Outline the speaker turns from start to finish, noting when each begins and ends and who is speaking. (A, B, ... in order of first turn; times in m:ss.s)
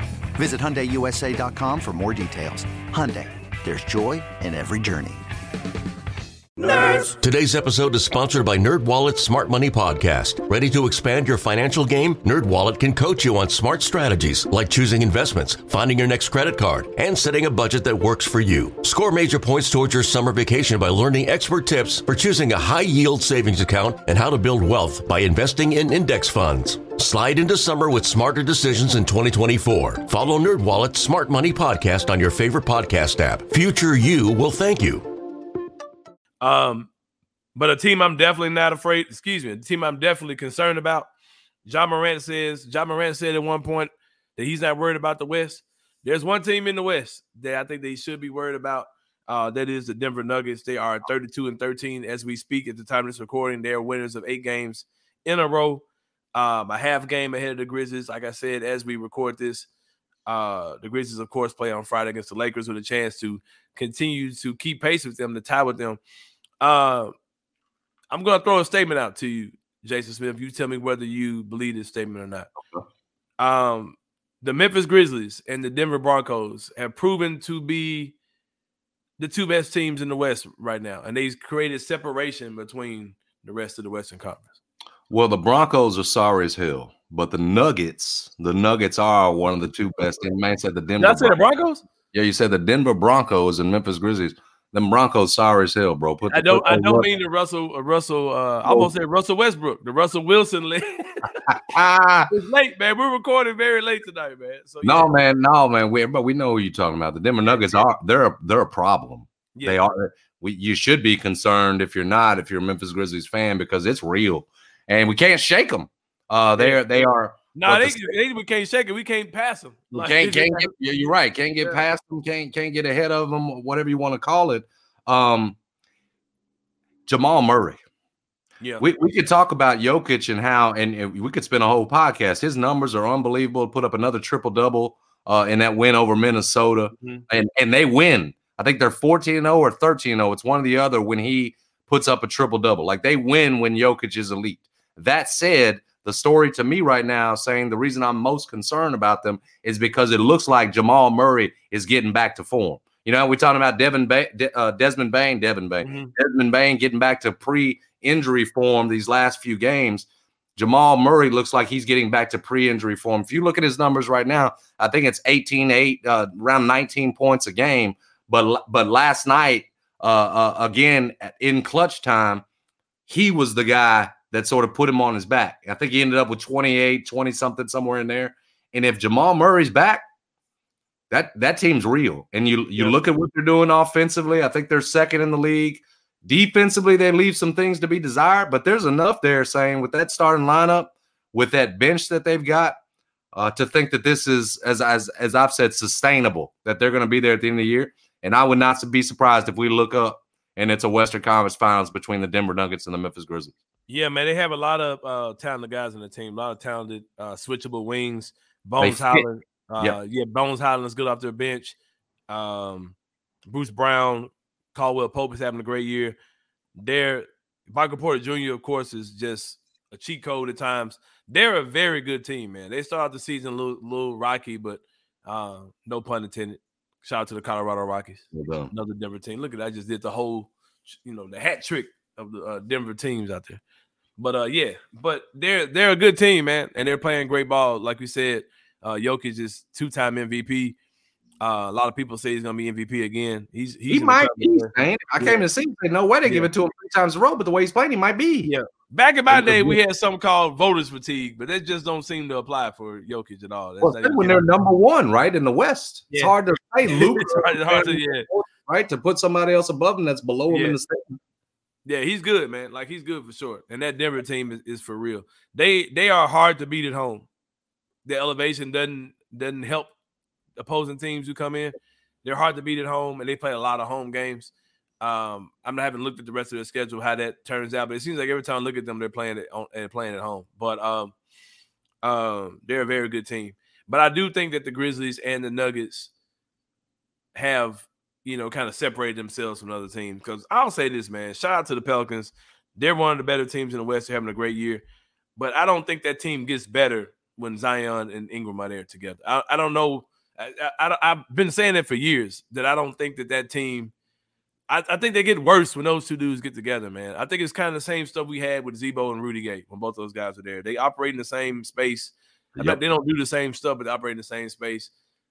0:00.3-0:05.2 A
0:06.6-0:35.1 B
0:36.4-0:36.9 C
0:37.6-0:41.1 C
0:41.6-0:55.8 C
0:56.4-0:59.7 C
1:00.3-1:06.0 C
1:06.6-1:07.1 C
1:08.1-1:12.5 C
1:13.4-1:18.2 C
1:19.2-1:24.6 C
1:25.1-1:31.4 D
1:31.0-1:31.8 C
1:32.1-1:37.1 D
1:36.3-1:41.4 C
1:41.5-1:42.3 D
1:42.3-1:45.1 C
1:44.8-1:58.1 D
1:47.4-1:47.8 C
1:49.5-1:49.8 C
1:56.6-2:00.7 C
1:59.9-2:05.6 D
2:07.1-2:07.8 D
2:08.6-2:08.9 C
2:08.8-2:52.4 D
2:17.0-2:17.2 C
2:35.8-2:36.1 C
2:53.1-3:00.0 D
3:01.1-3:12.8 D
3:02.8-3:03.0 C
3:13.3-3:23.5 D
3:23.9-3:31.8 C
3:28.8-3:29.2 D
3:32.3-3:36.2 C
3:36.8-3:53.6 C
3:48.3-3:48.7 D
3:54.2-4:00.8 C
4:01.4-4:05.4 C
4:03.9-4:08.5 D
4:06.2-4:06.5 C
4:08.4-4:14.5 C
4:09.3-4:09.8 D
4:13.8-4:21.2 D
4:16.1-4:18.3 C
4:20.5-4:20.8 C
4:21.8-4:27.3 C
4:28.0-4:29.9 C
4:30.6-4:41.1 C
4:42.0-4:46.1 C
4:47.4-4:54.8 C
4:55.4-5:03.9 C
5:04.7-5:14.9 C